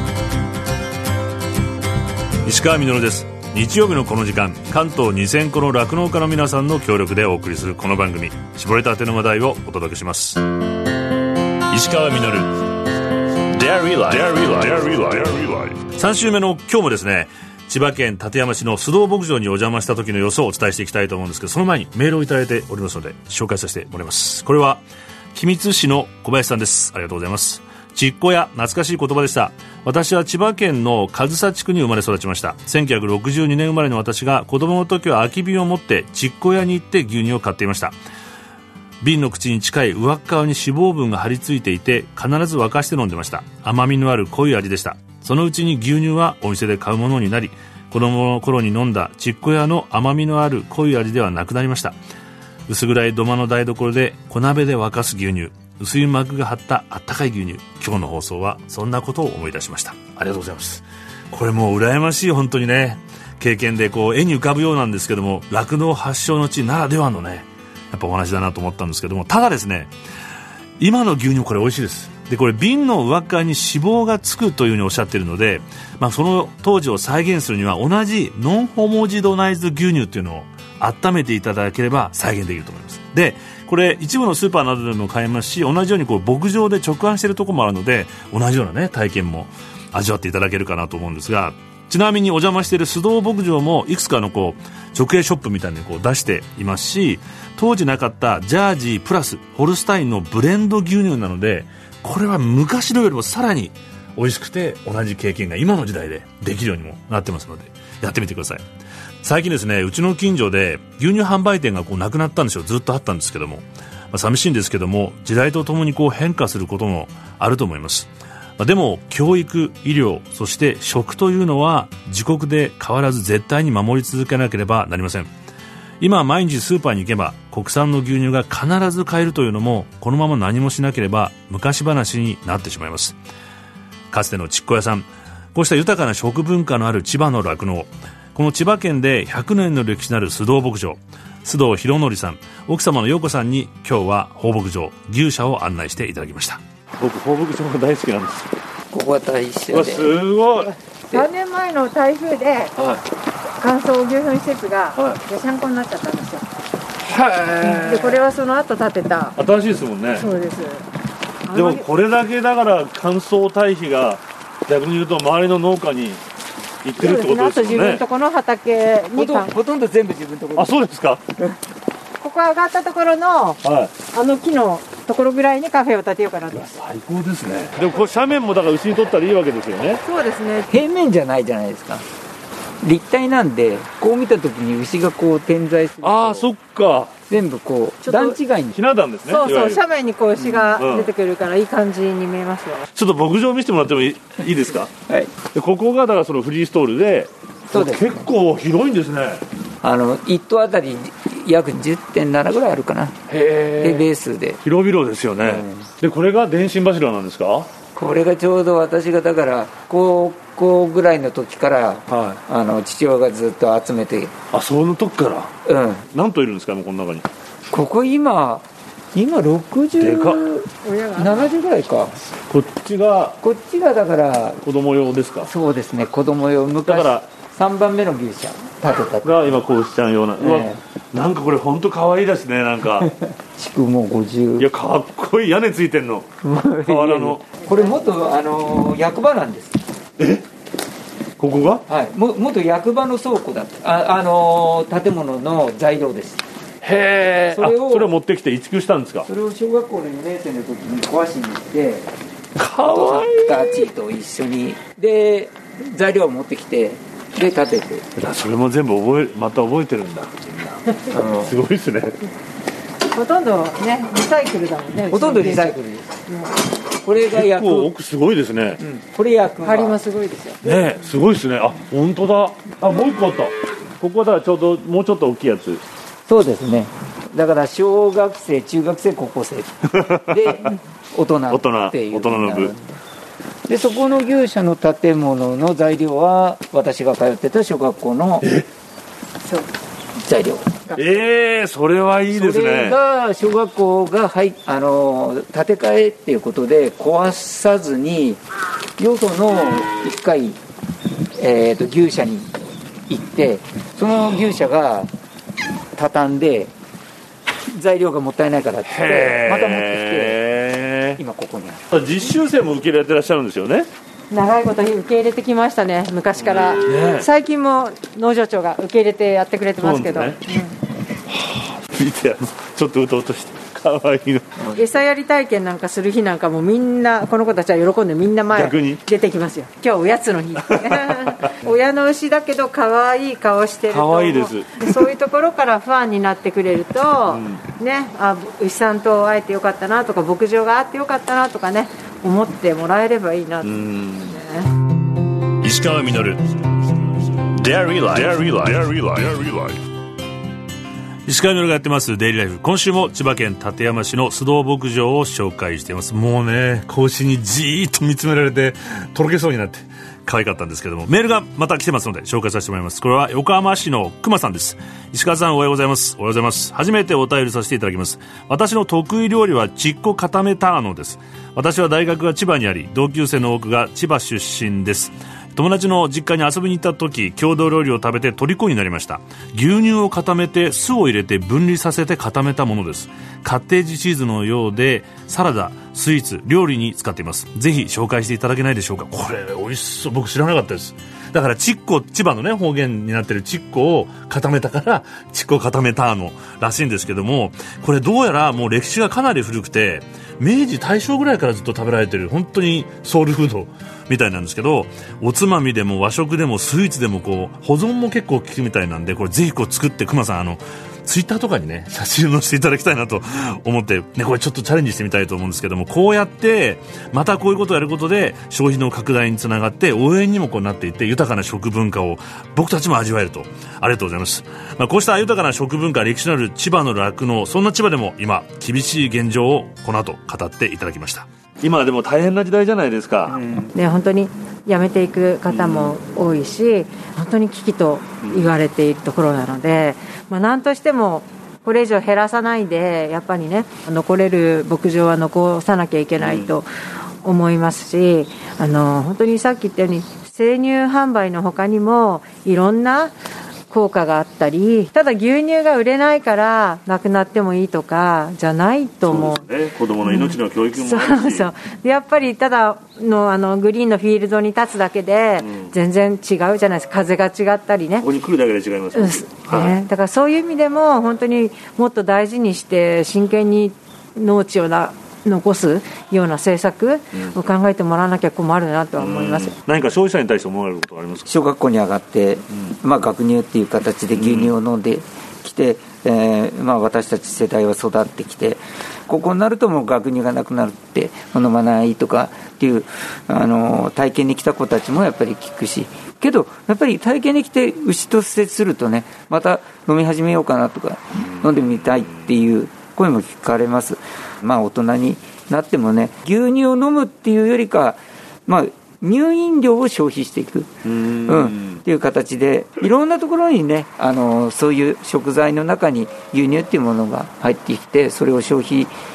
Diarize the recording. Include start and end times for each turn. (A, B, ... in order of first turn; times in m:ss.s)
0:02.4-0:10.4 A
0:11.7-0:12.7 A
0:13.5-0:38.0 A
0:39.0-0:52.0 A
0:52.7-1:09.9 A
1:10.8-1:48.6 A
1:49.2-2:05.3 A
2:06.0-2:13.2 A
2:14.1-2:28.5 A
2:28.9-2:30.2 B
2:29.7-2:30.7 A
2:31.1-2:32.7 C
2:33.6-2:36.4 C
2:37.1-2:38.2 A
2:37.6-2:39.4 C
2:39.4-2:40.3 A
2:40.1-2:40.9 C
2:41.5-2:41.8 C
2:41.5-2:46.2 A
2:46.8-2:48.0 A
2:47.0-2:49.5 C
2:49.2-2:50.8 B
2:50.6-2:51.2 A
2:52.2-2:53.6 C
2:53.6-2:53.9 A
2:54.1-2:56.7 C
2:56.5-3:00.0 A
3:00.0-3:00.7 C
3:00.7-3:02.0 B
3:02.8-3:06.5 B
3:06.0-3:07.2 A
3:07.3-3:08.8 B
3:08.0-3:08.4 C
3:08.7-3:09.8 A
3:09.2-3:12.9 C
3:10.4-3:10.7 B
3:10.8-3:11.1 A
3:13.0-3:14.9 A
3:15.1-3:15.3 B
3:15.5-3:19.4 A
3:17.7-3:18.2 B
3:19.8-3:23.2 B
3:23.3-3:24.1 A
3:23.8-3:24.6 B
3:24.6-3:27.7 A
3:25.4-3:25.9 B
3:28.0-3:34.3 B
3:32.1-3:32.4 A
3:34.5-3:35.5 A
3:35.7-3:36.1 B
3:36.1-3:37.3 A
3:37.7-3:42.2 B
3:40.0-3:40.4 A
3:40.8-3:41.5 C
3:42.5-3:43.4 A
3:43.4-3:44.6 B
3:44.6-3:45.5 A
3:45.4-3:49.5 B
3:46.8-3:47.3 A
3:49.2-3:53.1 A
3:50.4-3:50.8 B
3:53.0-3:54.7 B
3:54.6-3:56.3 A
3:56.4-3:59.8 B
3:56.8-3:57.5 A
4:00.2-4:00.4 A
4:01.4-4:01.8 A
4:01.9-4:06.4 B
4:06.8-4:09.3 A
4:07.5-4:08.1 B
4:09.3-4:12.1 B
4:12.6-4:13.9 A
4:12.8-4:18.0 B
4:18.2-4:22.2 A
4:21.1-4:21.5 B
4:23.1-4:25.8 C
4:25.1-4:26.1 B
4:26.3-4:26.6 C
4:27.0-4:27.9 B
4:27.2-4:28.8 A
4:28.8-4:30.0 B
4:29.6-4:31.0 C
4:30.6-4:35.8 A
4:36.3-4:43.0 B
4:39.9-4:40.7 A
4:41.5-4:42.7 A
4:43.7-4:48.5 B
4:48.4-4:48.7 A
4:50.2-4:50.9 B
4:51.0-4:53.0 A
4:52.3-4:58.4 B
4:59.0-5:00.6 B
5:01.4-5:02.5 B
5:03.1-5:05.1 B
5:06.0-5:06.7 B
5:07.7-5:10.4 B
5:08.8-5:11.2 A
5:11.2-5:11.9 B
5:11.9-5:13.9 A
5:14.3-5:20.8 C
5:16.4-5:17.3 A
5:19.8-5:20.4 A
5:21.3-5:24.7 A
5:24.7-5:44.7 C
5:28.5-5:29.0 A
5:30.7-5:31.5 A
5:33.9-5:35.1 A
5:37.3-5:37.6 A
5:43.6-5:44.4 A
5:45.6-5:46.4 A
5:47.5-5:49.8 A
5:51.3-7:13.4 A
7:13.3-7:13.7 B
7:13.7-7:26.7 C
7:15.5-7:16.0 A
7:18.2-7:18.5 A
7:26.2-7:26.5 A
7:27.2-7:33.2 C
7:33.7-7:39.4 C
7:39.0-7:41.5 A
7:40.0-7:48.1 C
7:45.4-7:45.7 A
7:48.0-7:49.8 A
7:48.9-7:59.6 C
7:59.0-8:01.3 A
8:01.3-8:38.9 B
8:04.2-8:04.5 A
8:30.9-8:31.8 A